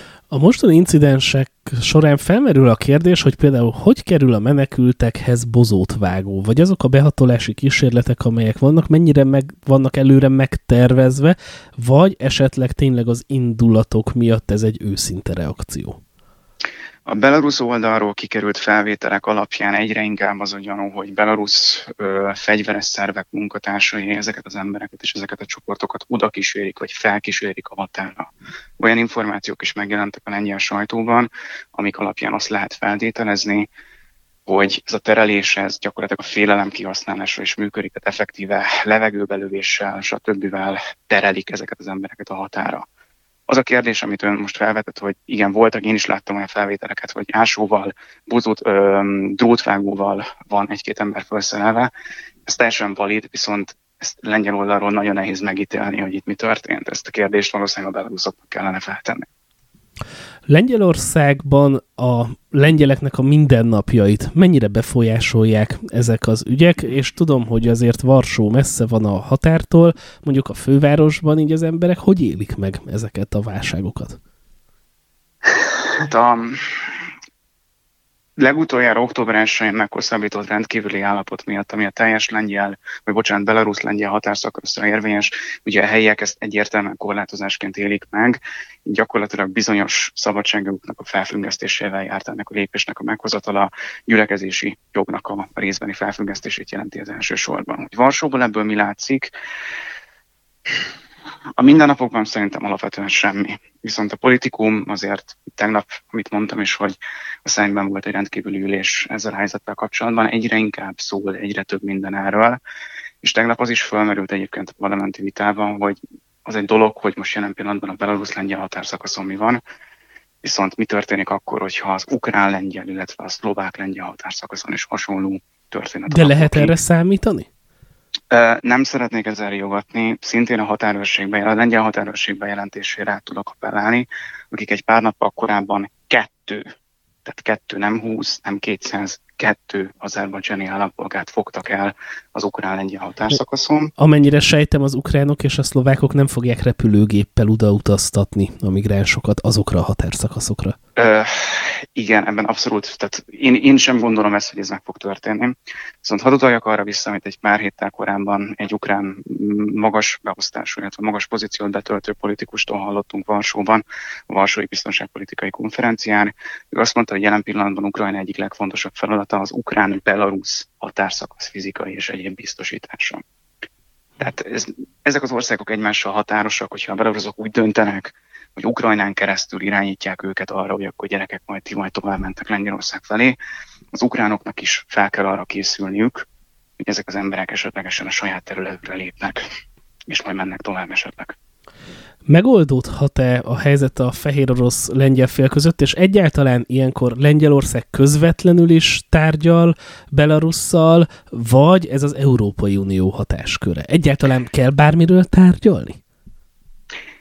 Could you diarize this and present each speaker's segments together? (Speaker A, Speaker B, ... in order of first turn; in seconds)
Speaker A: 0.3-16.0, 60.5-74.2, 126.1-127.5, 144.0-150.8, 192.3-206.0
Speaker B: 17.1-33.7, 34.5-42.9, 43.5-51.9, 52.5-59.3, 75.5-77.0, 78.4-99.3, 101.6-112.6, 113.2-119.6, 120.4-126.8, 128.3-136.7, 137.2-143.9, 151.0-173.2, 174.2-183.4, 183.9-186.3, 186.8-189.4, 190.1-191.4